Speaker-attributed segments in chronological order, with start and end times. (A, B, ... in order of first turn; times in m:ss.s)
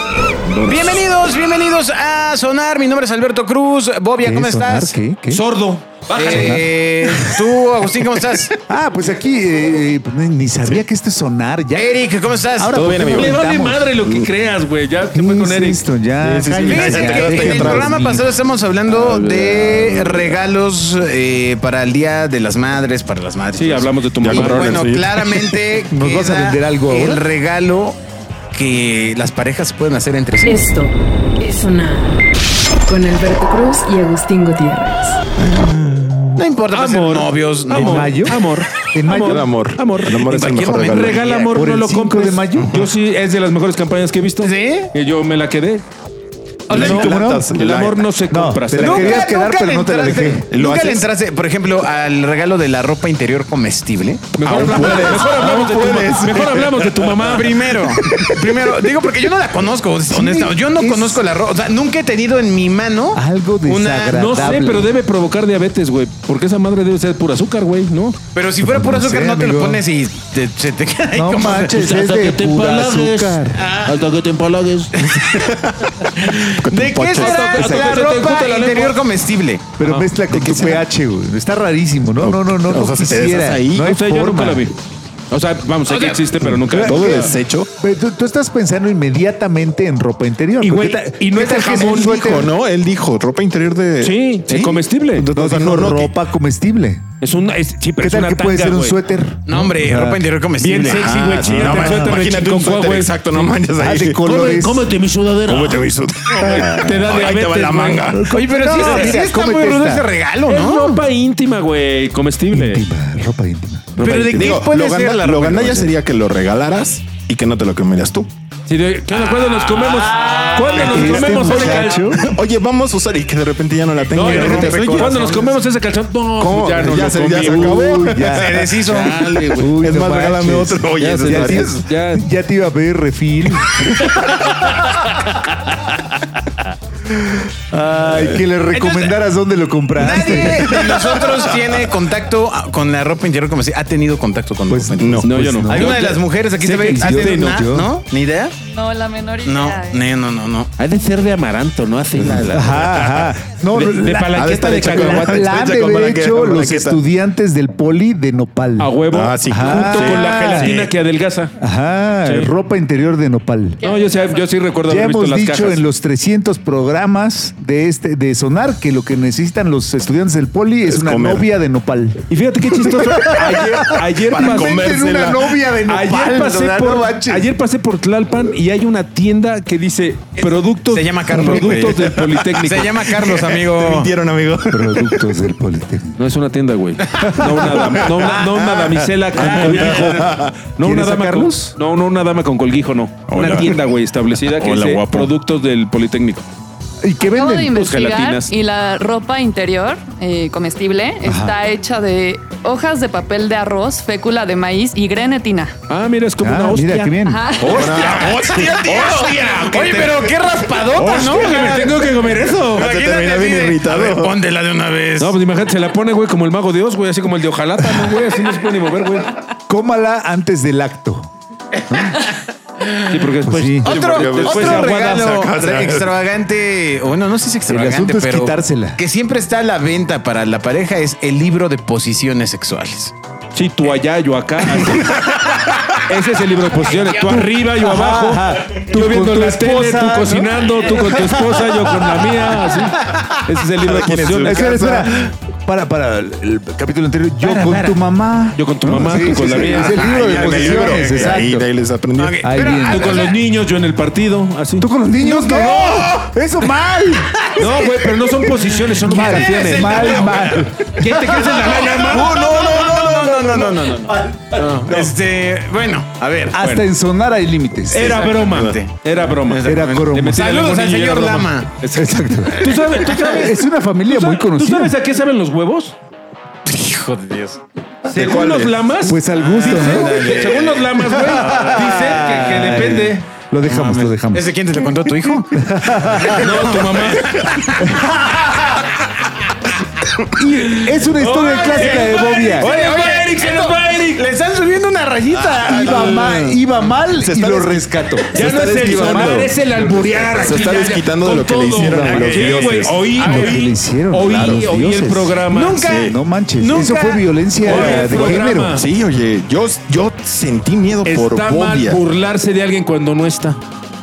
0:00.4-0:01.0 A
0:00.7-0:05.0 B
0:04.2-0:05.4 C
0:05.3-0:06.7 A
0:06.1-0:08.5 B
0:06.2-0:07.4 C
0:08.7-0:13.9 C
0:11.7-0:13.0 B
0:12.7-0:13.4 D
0:13.1-0:15.8 A
0:13.9-0:14.3 D
0:15.1-0:18.2 C
0:16.2-0:17.9 D
0:16.6-0:28.0 B
0:18.9-0:20.4 A
0:23.6-0:25.0 A
0:24.2-0:25.6 D
0:25.8-0:27.2 C
0:28.5-0:30.7 B
0:30.4-0:32.2 E
0:32.9-0:35.2 E
0:35.4-0:36.4 D
0:36.4-0:38.2 B
0:36.7-0:45.8 A
0:37.7-0:38.4 C
0:38.9-0:39.5 C
0:39.2-0:41.2 D
0:40.3-0:41.6 B
0:41.5-0:42.8 C
0:42.6-0:42.9 D
0:44.4-0:44.9 B
0:46.7-0:47.0 B
0:46.7-0:49.2 A
0:46.7-0:50.5 C
0:46.7-0:48.1 D
0:48.8-0:55.1 B
0:50.5-0:51.1 D
0:54.3-0:57.7 A
0:54.4-0:57.3 D
0:54.6-0:56.4 C
0:57.2-1:04.5 B
0:57.9-0:58.8 C
1:00.1-1:01.2 C
1:03.1-1:04.9 C
1:04.1-1:08.2 A
1:08.3-1:11.8 B
1:08.6-1:09.8 C
1:11.1-1:13.6 C
1:11.7-1:15.1 A
1:13.6-1:14.0 B
1:14.9-1:15.6 B
1:15.5-1:17.5 D
1:16.2-1:19.7 B
1:17.1-1:19.0 A
1:17.5-1:18.0 C
1:19.8-1:24.6 C
1:19.8-1:20.4 A
1:20.3-1:20.8 D
1:22.2-1:23.9 D
1:23.8-1:24.8 A
1:25.3-1:27.1 A
1:25.9-1:26.2 B
1:26.6-1:27.7 D
1:26.6-1:32.5 C
1:30.6-1:32.4 A
1:31.8-1:36.1 D
1:34.0-1:35.3 A
1:35.3-1:37.0 C
1:37.2-1:39.0 A
1:38.0-1:40.2 C
1:39.5-1:41.1 B
1:40.6-1:43.5 A
1:40.9-1:44.2 D
1:41.6-1:42.2 C
1:43.8-1:44.9 C
1:44.2-1:49.2 A
1:45.5-1:48.3 D
1:46.4-1:47.0 C
1:48.0-1:50.0 C
1:48.3-1:51.0 B
1:50.4-1:52.8 A
1:52.5-1:53.9 C
1:54.0-1:54.6 A
1:54.0-1:58.3 D
1:54.0-1:55.9 B
1:58.7-2:02.1 A
1:59.1-2:02.2 B
1:59.9-2:02.3 C
2:02.2-2:05.2 D
2:04.1-2:05.6 B
2:04.1-2:08.0 A
2:06.4-2:11.9 D
2:06.9-2:14.2 C
2:08.3-2:09.7 B
2:08.9-2:09.7 A
2:11.0-2:12.2 A
2:15.6-2:16.2 A
2:17.7-2:20.9 C
2:18.7-2:19.2 B
2:19.9-2:28.6 B
2:20.7-2:21.0 D
2:24.7-2:26.0 C
2:25.0-2:25.3 D
2:25.2-2:27.6 A
2:26.9-2:27.9 C
2:28.6-2:30.1 F
2:29.4-2:30.7 B
2:30.8-2:35.6 A
2:32.2-2:32.6 B
2:32.5-2:40.7 C
2:34.3-2:37.0 D
2:38.8-2:41.5 A
2:39.1-2:40.9 D
2:41.6-2:43.8 C
2:42.2-2:42.5 A
2:43.8-2:44.4 F
2:43.8-2:45.8 A
2:44.8-2:52.2 C
2:50.8-2:51.5 D
2:52.3-2:55.2 A
2:52.8-2:57.5 C
2:54.3-2:55.5 D
2:55.8-3:03.1 A
3:00.8-3:02.0 B
3:02.0-3:02.5 D
3:02.5-3:04.1 B
3:03.1-3:05.3 D
3:04.7-3:06.2 C
3:06.2-3:16.5 A
3:07.0-3:07.5 B
3:07.2-3:08.1 C
3:08.0-3:10.6 D
3:09.5-3:10.0 B
3:10.8-3:11.6 C
3:13.3-3:13.8 D
3:14.3-3:15.3 D
3:17.0-3:17.8 C
3:17.2-3:25.7 F
3:17.7-3:18.5 A
3:21.2-3:21.6 C
3:25.9-3:30.0 A
3:26.4-3:27.7 C
3:27.2-3:28.6 F
3:27.7-3:30.3 D
3:28.7-3:32.0 B
3:30.9-3:32.9 A
3:32.7-3:35.3 B
3:32.7-3:34.4 D
3:35.2-3:39.3 A
3:39.7-3:41.3 C
3:41.9-3:42.2 C
3:41.9-3:43.1 B
3:43.1-3:45.5 A
3:43.4-3:44.0 C
3:43.8-3:53.1 B
3:44.0-3:46.2 D
3:47.7-3:49.0 C
3:53.5-3:55.2 A
3:54.8-3:55.2 C
3:55.3-3:55.9 D
3:56.0-4:04.9 A
3:57.7-4:02.2 C
4:03.0-4:03.3 B
4:03.8-4:05.1 D
4:04.4-4:11.7 C
4:07.5-4:07.8 B
4:07.7-4:08.0 A
4:08.5-4:10.2 A
4:09.4-4:11.3 B
4:10.1-4:12.4 D
4:12.2-4:13.4 B
4:12.4-4:13.1 C
4:12.8-4:14.9 A
4:14.8-4:17.5 C
4:15.4-4:16.2 B
4:15.6-4:16.1 A
4:17.6-4:22.4 A
4:19.0-4:21.0 C
4:19.1-4:26.6 B
4:22.2-4:23.1 D
4:22.4-4:25.1 C
4:26.5-4:28.2 C
4:26.5-4:26.9 A
4:27.9-4:36.0 A
4:28.1-4:31.8 B
4:28.4-4:28.8 D
4:29.6-4:30.4 C
4:31.9-4:35.0 C
4:32.5-4:33.3 B
4:36.6-4:37.6 B
4:38.0-4:43.3 A
4:38.1-4:38.9 D
4:39.0-4:40.3 C
4:39.3-4:42.3 B
4:41.2-4:44.5 C
4:43.6-4:48.9 B
4:45.5-4:46.4 C
4:46.3-4:47.9 A
4:50.4-4:52.7 C
4:50.6-4:54.2 A
4:51.8-4:56.3 B
4:55.4-4:59.5 C
4:55.5-4:56.4 D
4:57.1-4:59.5 D
4:58.3-5:05.9 A
5:00.3-5:01.1 C
5:00.6-5:02.9 D
5:01.7-5:08.8 C
5:03.0-5:03.6 B
5:05.5-5:08.0 B
5:05.8-5:06.2 D
5:07.6-5:08.9 A
5:08.0-5:12.0 D
5:11.0-5:13.6 A